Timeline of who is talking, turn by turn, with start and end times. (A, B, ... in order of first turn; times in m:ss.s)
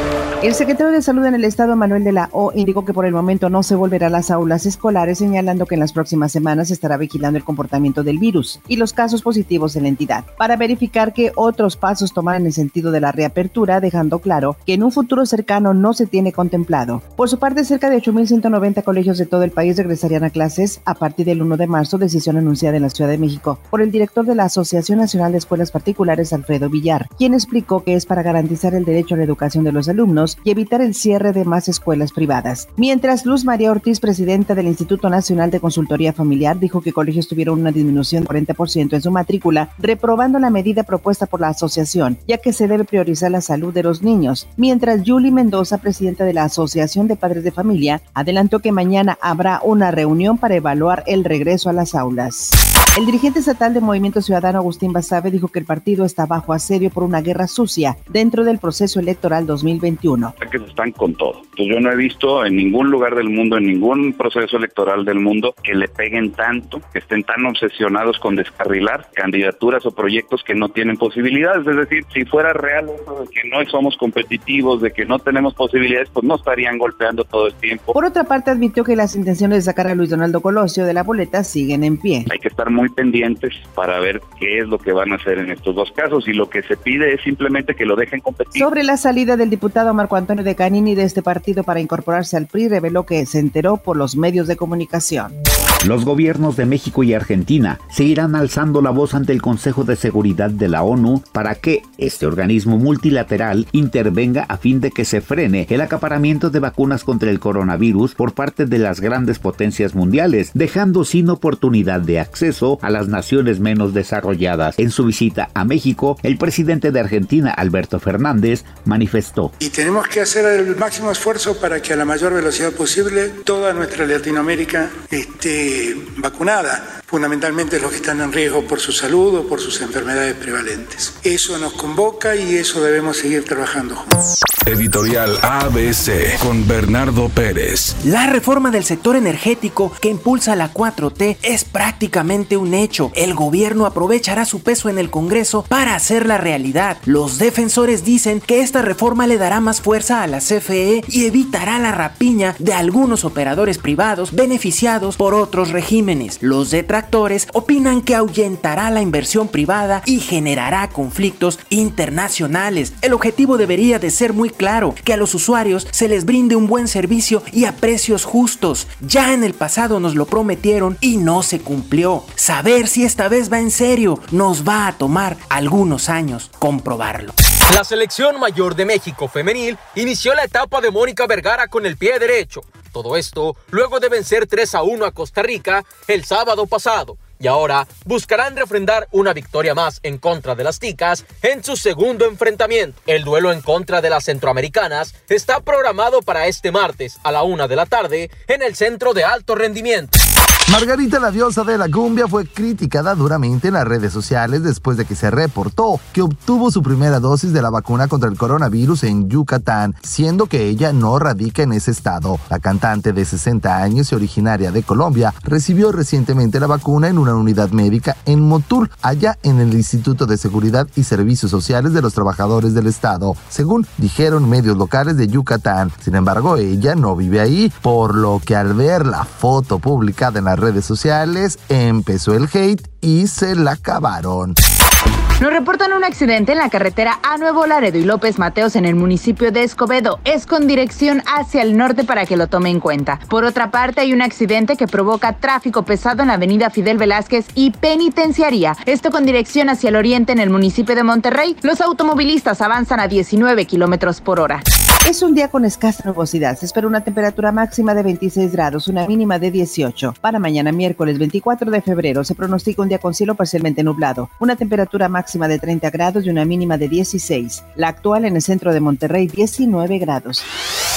0:00.4-1:00.3 A
1:00.4-1:17.9 B
1:17.9-1:22.3 A
1:22.3-1:28.7 B
1:28.5-1:35.3 A
1:35.8-1:59.5 C
1:59.6-2:14.2 D
2:14.6-2:17.9 E
2:18.0-2:57.3 F
2:57.7-3:20.1 G
3:20.7-3:54.5 H
3:55.4-4:14.6 I
4:15.0-4:30.4 A